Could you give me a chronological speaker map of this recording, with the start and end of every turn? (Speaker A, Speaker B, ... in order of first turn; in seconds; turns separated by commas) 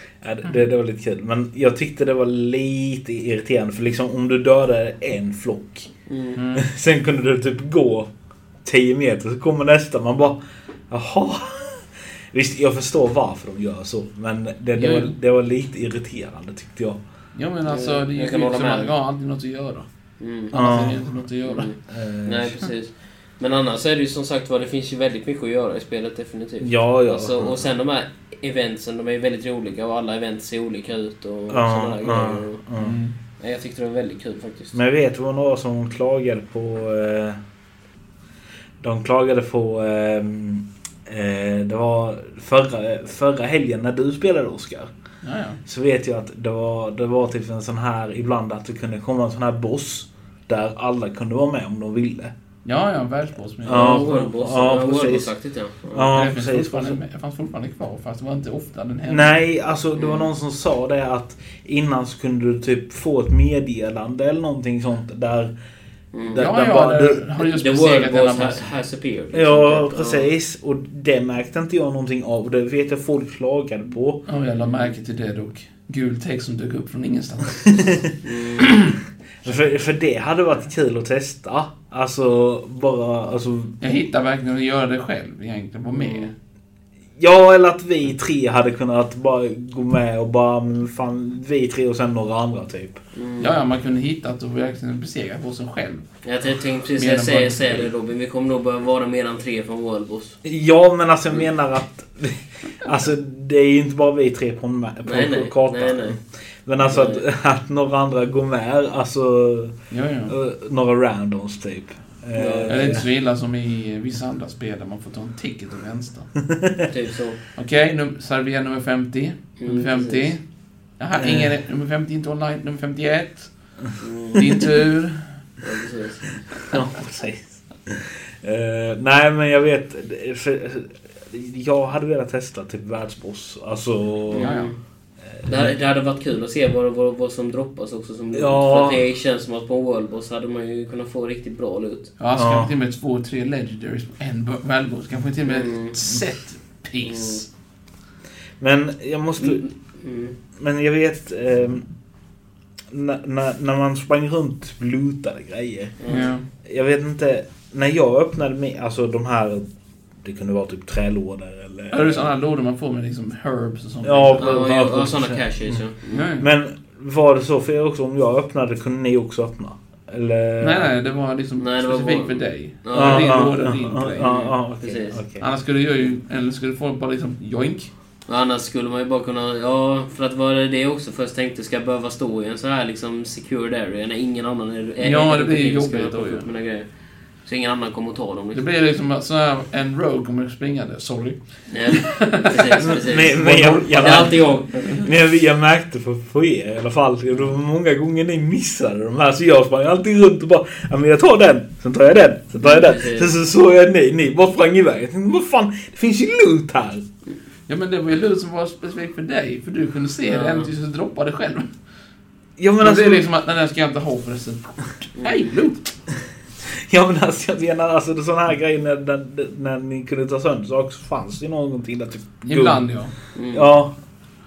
Speaker A: 0.2-5.9, Speaker B: 6.1-6.4, Speaker C: 6.3-6.7, Speaker A: 6.5-8.1, Speaker A: 8.6-10.4, Speaker A: 10.9-17.0, Speaker C: 14.7-15.1, Speaker C: 17.3-19.9, Speaker B: 17.6-18.9, Speaker B: 20.2-20.5, Speaker C: 20.5-21.7, Speaker A: 20.5-21.1, Speaker B: 21.4-32.6, Speaker A: 21.9-22.6, Speaker A: 26.6-27.6, Speaker A: 31.5-33.0, Speaker C: 32.8-33.1, Speaker B: 33.4-34.8, Speaker A: 34.7-37.4, Speaker A: 38.8-44.9, Speaker C: 45.2-45.6, Speaker A: 45.6-52.3, Speaker C: 52.6-54.3, Speaker A: 53.6-55.3, Speaker B: 53.6-56.1, Speaker A: 55.9-57.0, Speaker C: 56.1-59.4, Speaker A: 59.1-65.5, Speaker B: 60.0-60.3, Speaker B: 66.1-66.5, Speaker A: 66.3-67.2, Speaker C: 66.3-68.7, Speaker B: 67.4-70.3, Speaker A: 69.3-74.2, Speaker C: 74.2-78.1, Speaker B: 74.6-74.9, Speaker B: 78.2-78.9, Speaker C: 78.7-79.0, Speaker A: 79.4-83.8, Speaker C: 83.8-86.3, Speaker B: 85.9-86.3, Speaker A: 87.2-93.0, Speaker B: 93.1-93.6, Speaker C: 93.4-96.0, Speaker B: 96.2-100.4, Speaker C: 97.0-97.9, Speaker A: 100.4-109.8, Speaker B: 105.0-106.2, Speaker B: 106.8-107.2, Speaker C: 109.9-110.3, Speaker A: 110.3-113.1, Speaker B: 112.3-113.0, Speaker C: 112.7-116.4, Speaker B: 116.8-117.4, Speaker C: 117.5-120.4, Speaker B: 119.6-120.3, Speaker C: 121.0-123.7, Speaker A: 121.2-121.5, Speaker B: 124.0-124.4, Speaker C: 124.3-125.4, Speaker B: 125.6-126.4, Speaker A: 126.7-134.6, Speaker B: 134.3-134.8, Speaker C: 134.4-134.7, Speaker A: 135.3-135.7, Speaker B: 135.4-142.1, Speaker A: 138.3-139.0, Speaker C: 142.2-147.5, Speaker A: 142.3-142.7, Speaker B: 145.4-146.0, Speaker B: 147.0-147.4, Speaker A: 148.6-149.6, Speaker B: 149.4-150.3, Speaker A: 150.6-151.9, Speaker A: 152.9-159.6, Speaker B: 156.0-156.3, Speaker C: 156.1-156.4, Speaker A: 160.2-162.3, Speaker C: 161.9-164.7, Speaker A: 164.0-170.9, Speaker B: 164.4-166.3, Speaker C: 166.1-166.5, Speaker C: 170.6-174.3, Speaker B: 171.6-173.5, Speaker A: 172.9-175.4, Speaker B: 174.2-175.2, Speaker C: 175.4-177.9, Speaker B: 178.3-186.9, Speaker C: 185.0-186.5, Speaker B: 187.4-188.6, Speaker C: 188.5-195.0, Speaker B: 191.7-195.0, Speaker A: 192.8-207.0, Speaker B: 202.6-203.3, Speaker C: 207.7-211.7, Speaker B: 210.2-210.7, Speaker A: 212.6-213.2, Speaker C: 212.8-215.9, Speaker A: 216.9-222.8, Speaker C: 222.4-223.1, Speaker B: 223.3-223.7, Speaker A: 223.5-223.9